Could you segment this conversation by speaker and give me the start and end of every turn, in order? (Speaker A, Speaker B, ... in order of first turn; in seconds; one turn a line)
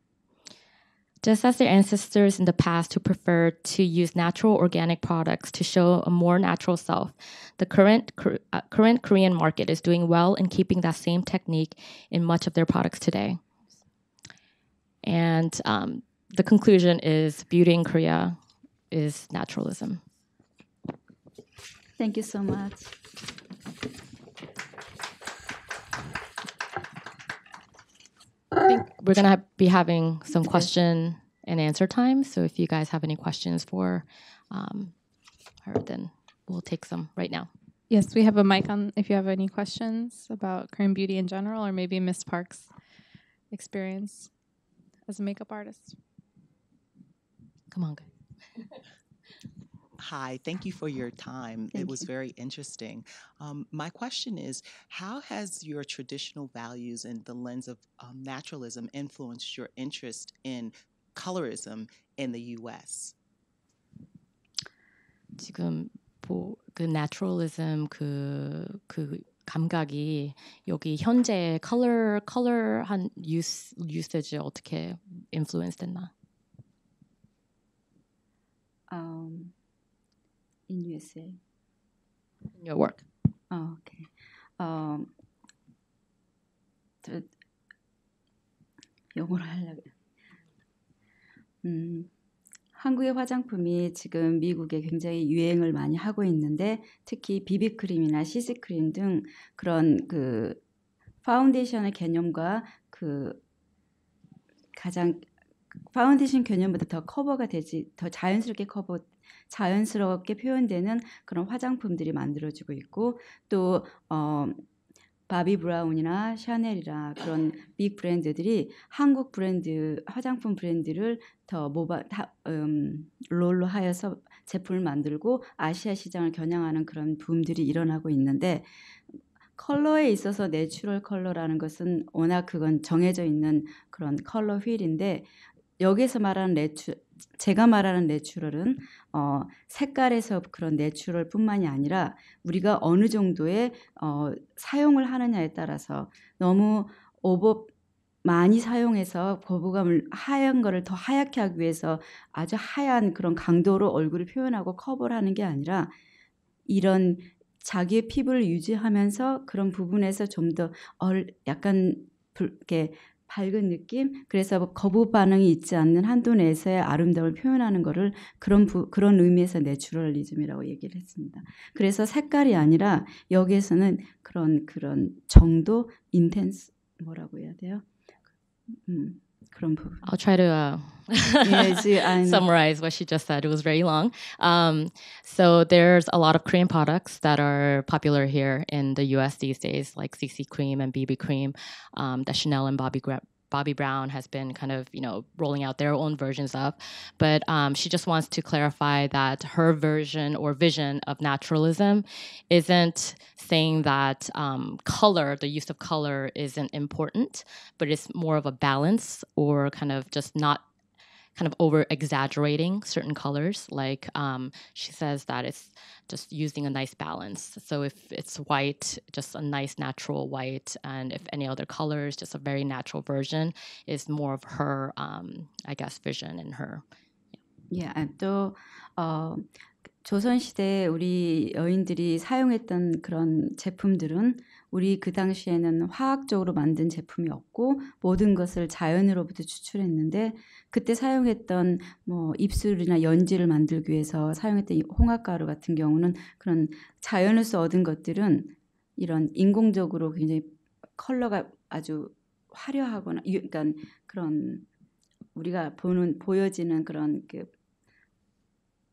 Speaker A: 1.2-13.4
Speaker A: 15.0-18.4
Speaker A: 18.9-20.0
Speaker B: 22.0-22.9
Speaker A: 28.6-34.9
Speaker A: 35.6-37.5
Speaker C: 37.9-42.7
Speaker C: 43.5-44.3
Speaker C: 45.1-45.9
Speaker A: 47.7-48.1
Speaker D: 50.0-63.1
Speaker B: 51.7-52.0
Speaker A: 65.4-76.1
Speaker B: 78.9-79.5
Speaker B: 80.7-81.4
Speaker A: 82.6-83.0
Speaker B: 83.5-85.1
Speaker B: 89.1-89.9
Speaker B: 91.6-92.1
Speaker B: 92.7-100.6
Speaker B: 101.2-103.4
Speaker B: 104.7-105.2
Speaker B: 105.9-114.6
Speaker B: 115.3-128.7
Speaker B: 129.6-135.2
Speaker B: 135.8-147.7
Speaker B: 148.2-155.9
Speaker B: 156.7-177.9
Speaker B: 178.7-180.0
Speaker A: 180.0-210.6
Speaker B: 181.4-182.4
Speaker A: 211.4-226.8
Speaker B: 227.7-229.5
Speaker B: 230.0-254.6
Speaker B: 255.3-257.5